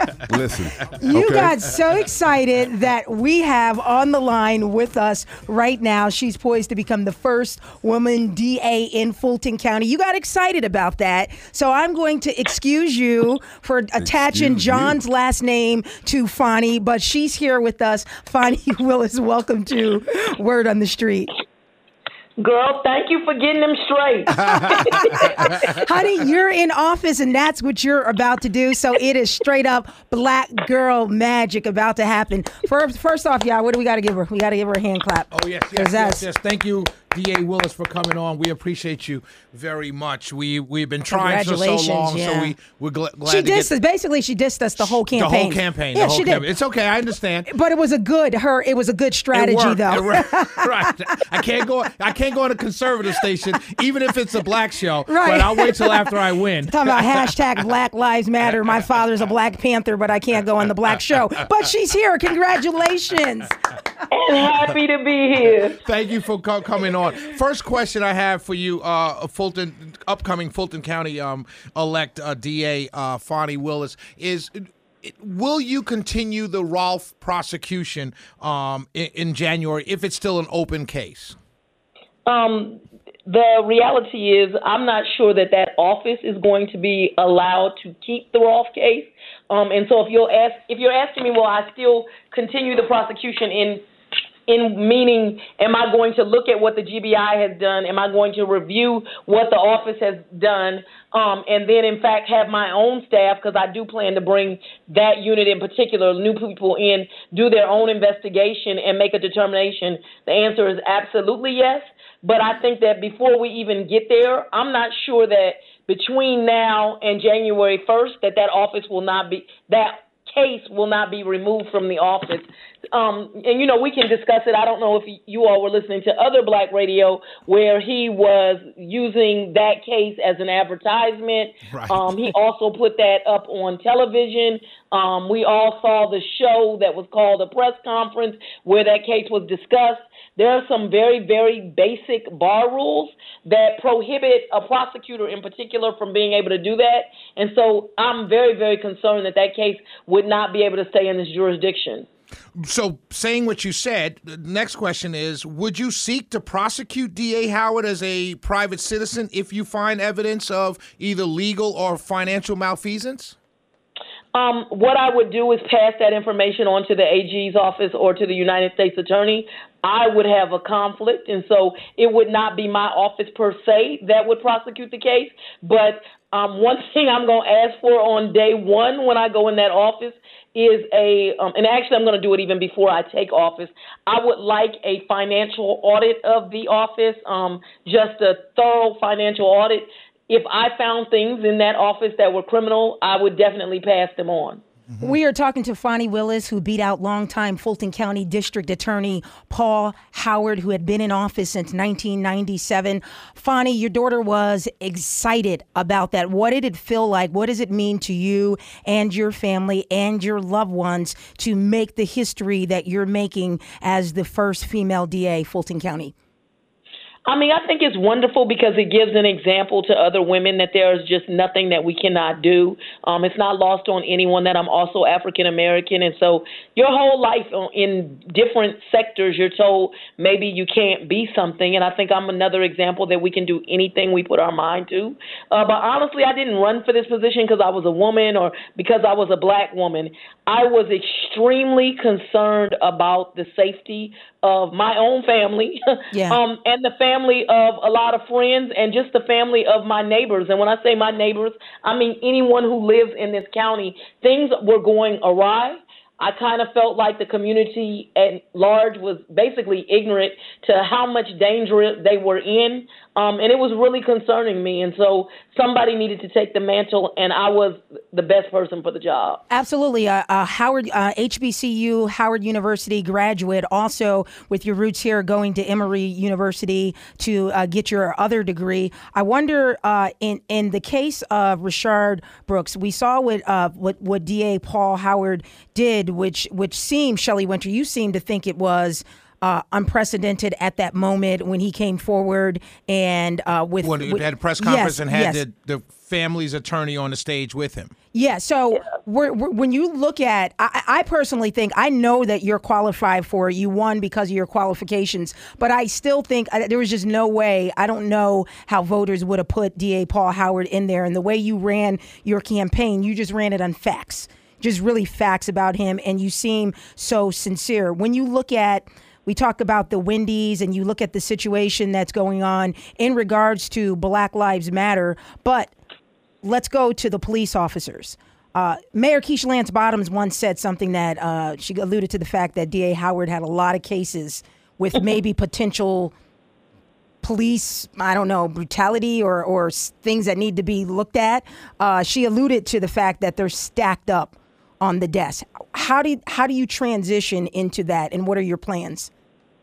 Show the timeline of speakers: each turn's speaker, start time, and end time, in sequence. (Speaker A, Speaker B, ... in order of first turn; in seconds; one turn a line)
Speaker A: 0.3-1.5
Speaker B: 1.0-21.3
Speaker A: 13.9-15.0
Speaker C: 22.4-25.4
Speaker B: 24.4-36.3
Speaker D: 35.3-43.7
Speaker B: 41.1-42.5
Speaker B: 43.2-46.5
Speaker D: 44.8-47.5
Speaker B: 47.5-50.9
Speaker D: 49.3-57.4
Speaker B: 55.1-56.1
Speaker B: 56.7-63.6
Speaker C: 64.1-65.8
Speaker D: 65.8-81.3
Speaker C: 82.2-93.8
Speaker C: 94.5-152.1
Speaker D: 131.7-132.0
Speaker D: 152.6-163.3
Speaker C: 164.3-194.6
Speaker B: 195.0-216.1
Speaker C: 217.2-269.4
Speaker B: 246.1-246.4
Speaker B: 269.5-295.4
Speaker D: 293.8-297.9
Speaker B: 298.1-325.7
Speaker B: 326.4-336.1
Speaker B: 337.2-349.1